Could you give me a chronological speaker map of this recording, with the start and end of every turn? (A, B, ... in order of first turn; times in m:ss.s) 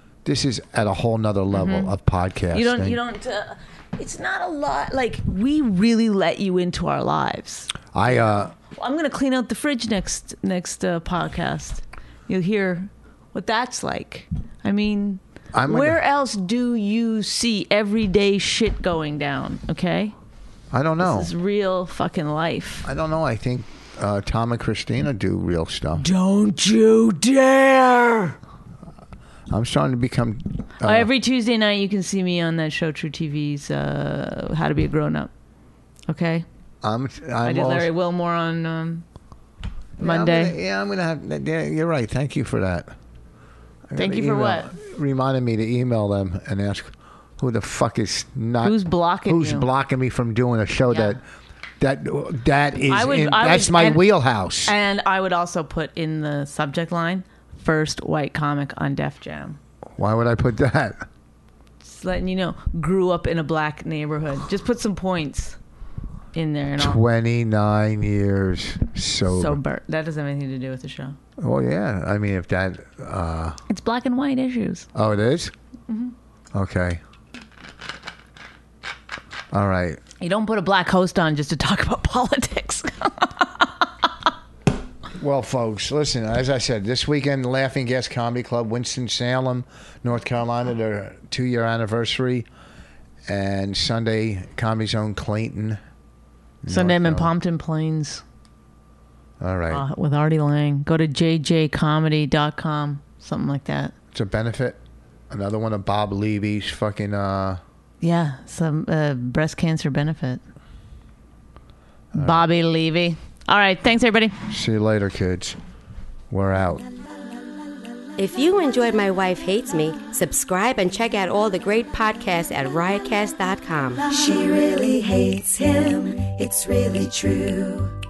0:00.2-0:03.0 A
0:01.5-0:01.9 B
0:02.5-0:07.7 B
0:07.9-0:08.5 A
0:08.6-0:20.1 B
0:15.5-0:16.0 A
0:20.7-0:21.3 A
0:21.0-0:22.9 B
0:22.8-0:26.0 A
0:26.0-0:28.4 B
0:29.5-0:31.1 A
0:30.8-0:35.3 B
0:36.1-0:36.4 B
0:36.8-0:37.9 A
0:37.4-0:39.0 B
0:40.0-0:42.9 A
0:40.0-0:40.6 B
0:43.9-0:51.2 A
0:44.0-0:44.7 B
0:48.6-0:49.7 B
0:50.9-0:51.2 B
0:51.8-0:54.7 A
0:52.9-0:54.0 B
0:54.6-0:59.6 B
1:00.0-1:01.0 A
1:01.8-1:05.6 B
1:06.3-1:07.0 B
1:06.8-1:09.6 A
1:09.3-1:11.2 B
1:11.4-1:13.6 A
1:13.7-1:14.9 B
1:14.9-1:15.5 A
1:15.9-1:16.1 B
1:16.5-1:17.0 A
1:19.5-1:20.0 A
1:20.2-1:24.1 B
1:25.2-1:32.5 A
1:33.2-1:35.8 A
1:36.6-1:37.3 A
1:36.7-1:38.2 B
1:39.4-1:39.8 A
1:39.7-1:43.9 B
1:44.1-1:47.6 A
1:48.0-1:50.4 B
1:52.1-1:52.4 A
1:52.1-1:54.4 B
1:54.5-1:55.6 A
1:56.3-1:56.8 A
1:58.2-2:04.1 C
2:04.0-2:07.9 D